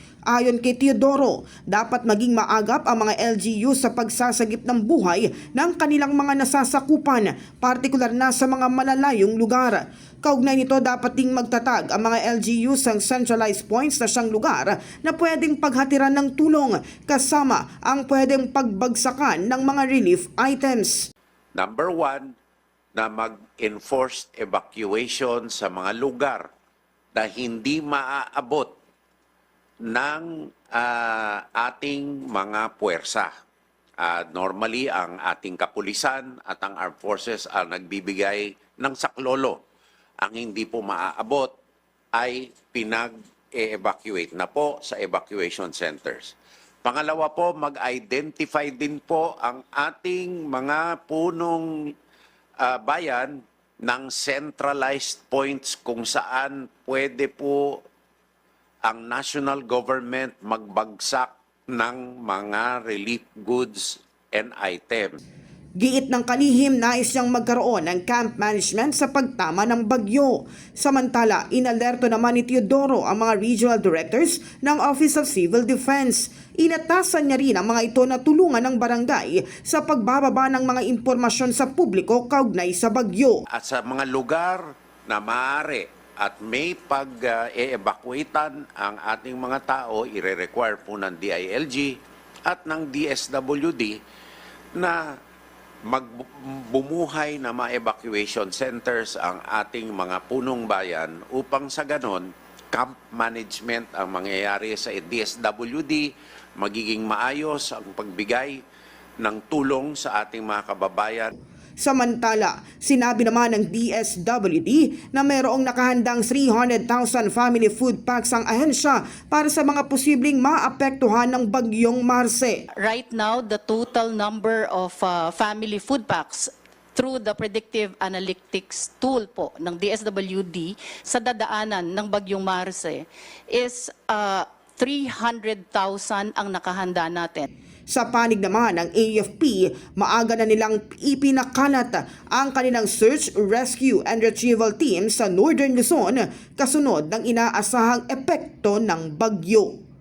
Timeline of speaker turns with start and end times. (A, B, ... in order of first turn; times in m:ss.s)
0:00.3-0:21.1 A
0:21.6-0:22.3 B
0:23.0-0:26.5 B
0:27.1-0:28.7 B
0:29.9-0:33.3 B
0:34.0-0:39.6 B
0:40.2-0:41.5 B
0:42.1-0:51.9 B
0:52.6-0:57.8 B
0:58.8-1:05.2 B
1:05.8-1:23.4 A
1:23.5-1:31.9 B
1:32.4-1:34.0 B
1:35.9-1:46.1 B
1:46.6-1:48.6 B
1:49.2-1:51.3 B
1:51.8-2:02.6 A
2:02.8-2:17.5 C
2:17.9-2:29.8 A